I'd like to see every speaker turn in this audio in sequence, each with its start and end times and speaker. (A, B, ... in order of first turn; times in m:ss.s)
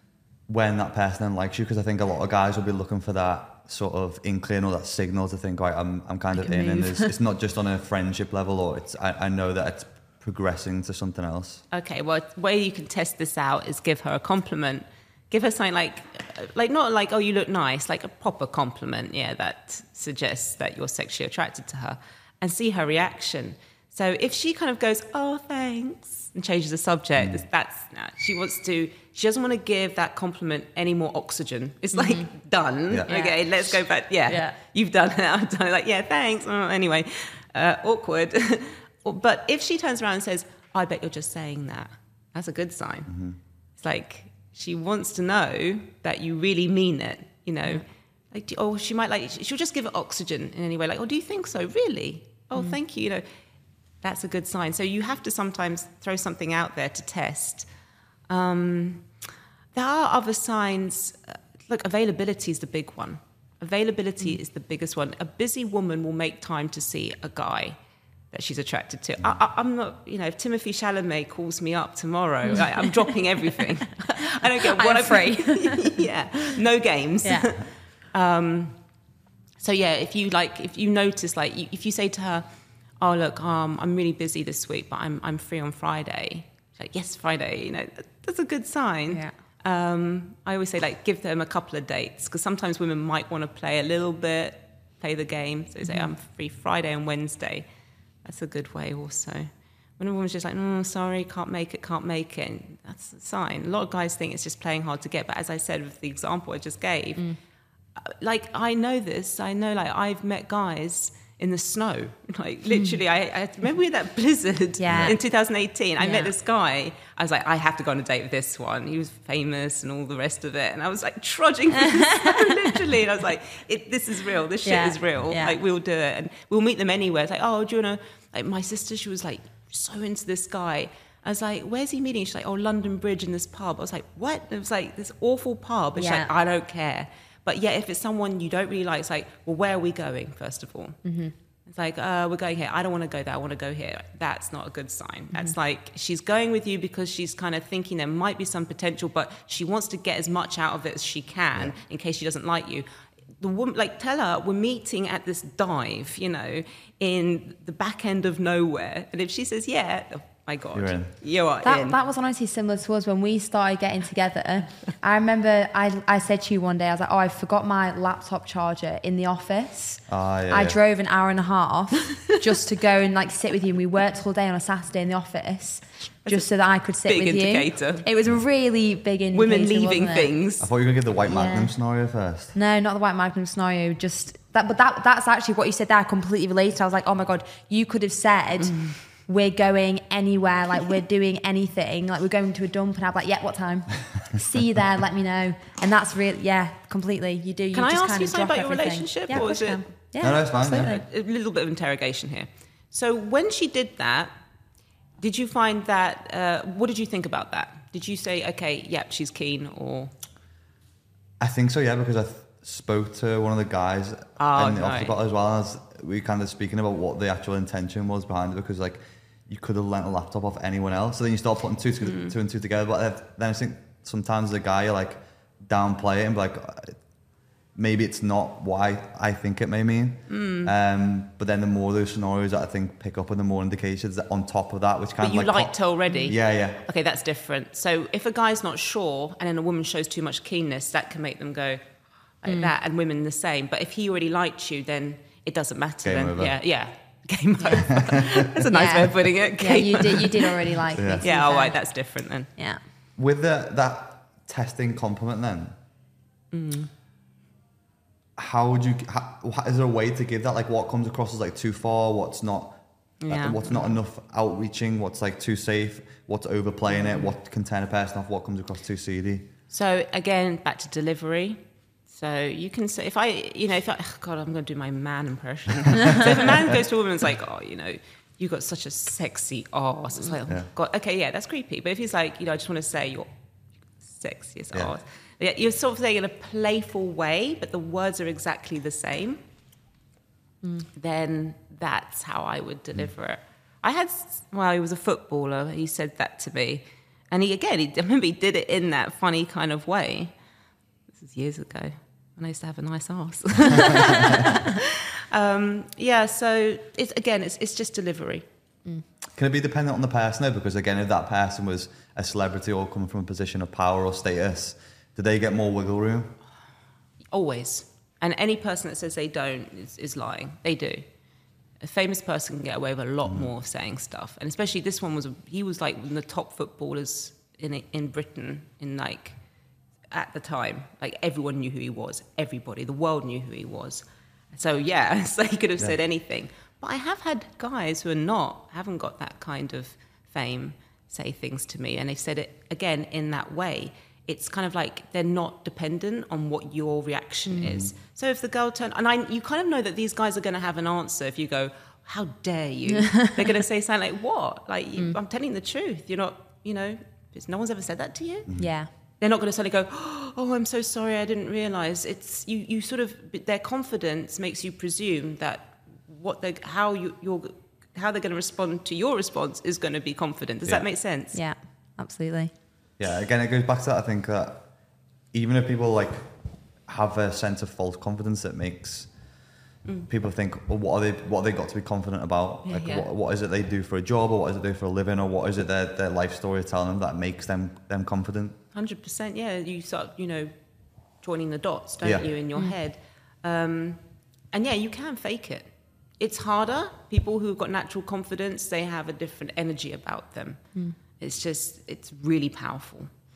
0:00.5-0:11.6 A
0:06.4-0:07.1 B
0:11.7-0:43.1 C
0:27.2-0:27.4 A
0:31.9-0:32.3 B
0:33.1-0:34.5 B
0:43.1-0:43.4 A
0:43.8-0:53.2 C
0:54.0-0:57.7 C
0:58.3-0:59.1 C
0:59.7-1:07.8 C
1:08.3-1:18.8 C
1:14.6-1:16.0 B
1:17.2-1:17.5 B
1:19.6-1:22.4 C
1:23.0-1:37.6 C
1:35.8-1:36.1 B
1:38.2-1:47.2 C
1:48.0-2:21.0 C
1:52.7-1:53.0 B
1:54.8-1:55.2 B
1:56.0-1:56.3 B
2:02.0-2:02.7 B
2:04.6-2:05.6 B
2:16.0-2:16.3 B
2:21.0-2:21.3 B
2:21.7-2:32.8 C
2:33.4-2:42.0 C
2:40.7-2:41.1 A
2:41.6-3:00.3 B
2:50.1-2:50.8 A
2:56.2-2:58.0 C
2:59.3-3:00.7 C
3:00.6-3:02.5 A
3:01.3-3:01.7 B
3:02.5-3:21.0 B
3:08.6-3:09.0 C
3:17.7-3:24.3 C
3:20.2-3:21.0 A
3:25.2-3:30.1 C
3:31.4-3:47.0 A
3:34.4-3:35.2 C
3:42.0-3:42.4 C
3:47.7-3:56.8 A
3:50.3-3:50.7 C
3:55.2-4:01.8 C
4:02.4-4:12.5 C
4:02.5-4:02.7 B
4:06.0-4:06.6 A
4:07.6-4:07.9 B
4:08.7-4:11.8 B
4:10.9-4:11.2 A
4:13.2-4:15.8 A
4:16.5-4:16.9 C
4:18.4-4:29.5 A
4:23.2-4:24.0 C
4:26.9-4:27.3 C
4:29.7-4:43.3 C
4:36.1-4:36.4 A
4:44.0-4:49.4 C
4:51.0-5:00.3 C
5:01.1-5:08.4 C
5:09.3-5:16.4 A
5:17.3-5:21.0 C
5:21.8-5:29.4 C
5:23.2-5:23.5 A
5:30.1-5:58.5 C
5:47.5-5:47.7 B
5:47.6-5:47.9 A
5:58.6-5:58.9 B
5:59.2-6:11.4 C
6:11.3-6:12.5 B
6:13.0-6:14.7 A
6:15.3-6:16.3 A
6:16.8-6:19.1 A
6:20.1-6:28.6 A
6:22.6-6:23.1 C
6:28.7-6:30.5 C
6:31.2-6:34.0 C
6:32.0-6:32.3 A
6:34.5-6:35.7 C
6:36.2-6:40.6 C
6:41.2-6:43.1 C